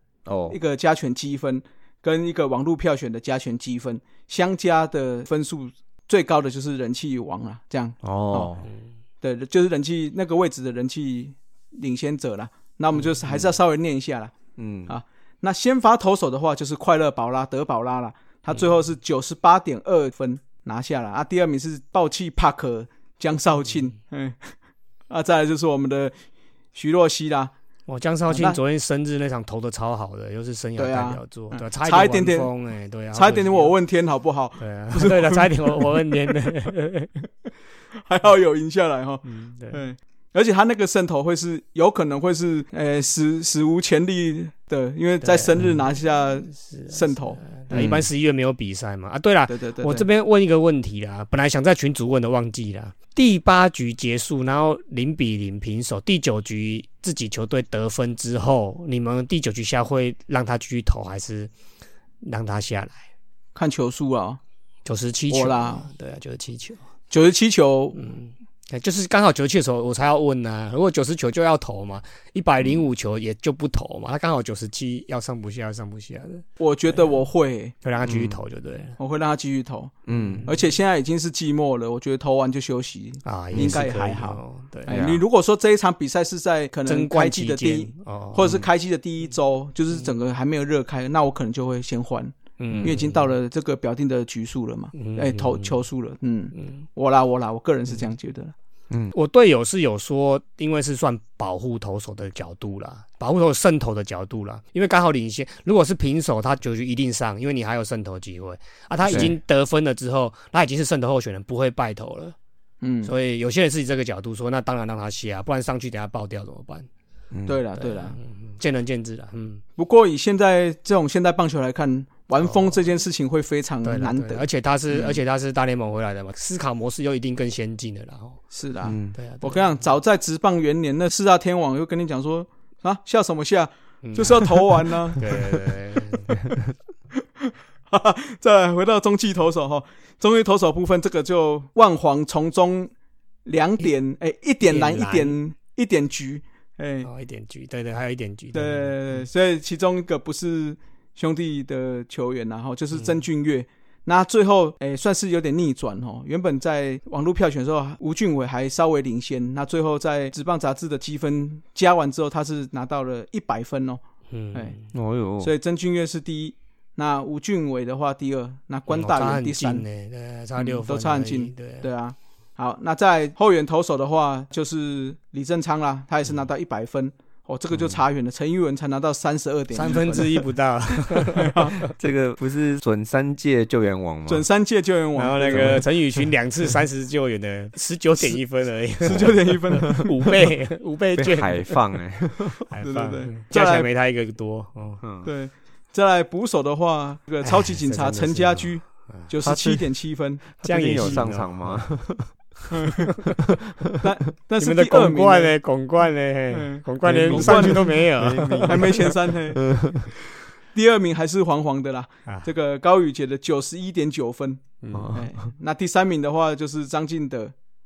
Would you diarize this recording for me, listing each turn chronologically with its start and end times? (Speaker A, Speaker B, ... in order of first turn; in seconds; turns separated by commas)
Speaker A: 0.2-0.6, Speaker B: 0.5-8.5, Speaker A: 8.0-8.7, Speaker B: 9.2-14.3, Speaker A: 14.6-14.9, Speaker B: 14.9-24.5, Speaker B: 25.1-26.1, Speaker B: 26.7-27.5, Speaker C: 27.9-33.7, Speaker B: 28.3-28.6, Speaker B: 30.8-32.5, Speaker B: 33.1-36.3, Speaker C: 34.6-37.1, Speaker B: 38.0-47.4, Speaker C: 39.2-39.8, Speaker C: 45.2-45.8, Speaker C: 46.5-61.5, Speaker A: 47.7-48.0, Speaker B: 49.5-50.1, Speaker C: 62.2-63.0, Speaker B: 63.5-64.4, Speaker C: 64.8-66.8, Speaker B: 65.3-65.8, Speaker B: 67.1-68.0, Speaker C: 68.0-76.4, Speaker B: 76.6-77.7, Speaker C: 77.8-79.0, Speaker A: 78.0-78.4, Speaker B: 79.0-79.9, Speaker A: 80.1-80.5, Speaker C: 80.1-80.6, Speaker B: 80.4-98.5, Speaker C: 83.2-84.9, Speaker A: 83.5-83.8, Speaker A: 84.9-85.2, Speaker C: 86.8-88.5, Speaker C: 92.6-93.3, Speaker C: 95.0-95.8, Speaker C: 96.6-96.8, Speaker C: 99.1-112.3, Speaker A: 109.0-109.3, Speaker B: 112.8-113.1, Speaker C: 113.0-116.9, Speaker A: 117.3-117.6, Speaker B: 117.5-118.2, Speaker C: 117.8-119.6, Speaker B: 119.8-125.2, Speaker C: 122.4-122.8, Speaker C: 123.8-128.4, Speaker B: 128.5-135.5, Speaker A: 128.8-129.2, Speaker C: 129.1-129.8, Speaker C: 134.0-134.6, Speaker C: 135.2-136.3, Speaker B: 137.4-142.9, Speaker B: 143.4-147.1, Speaker C: 144.7-145.4, Speaker C: 147.0-149.2, Speaker B: 148.5-164.0, Speaker C: 164.3-164.8, Speaker A: 164.9-165.5, Speaker B: 165.4-169.8, Speaker C: 168.9-171.9, Speaker B: 170.6-180.4, Speaker C: 179.7-181.9, Speaker B: 181.2-181.9, Speaker A: 182.0-184.4, Speaker B: 184.3-185.8, Speaker C: 185.2-191.8, Speaker A: 185.5-185.8, Speaker B: 189.0-190.0, Speaker A: 189.1-190.1, Speaker A: 191.2-192.7, Speaker C: 192.6-195.0, Speaker B: 192.8-193.9, Speaker A: 195.0-195.3, Speaker B: 195.2-200.4, Speaker C: 197.4-199.3, Speaker A: 199.4-199.8, Speaker A: 200.6-202.3, Speaker C: 200.6-202.0, Speaker B: 204.0-205.6, Speaker C: 204.6-209.0, Speaker B: 206.5-207.8, Speaker A: 207.0-210.0, Speaker B: 208.6-209.6, Speaker B: 210.7-214.6, Speaker C: 214.8-215.1, Speaker A: 214.9-215.3, Speaker B: 215.1-217.5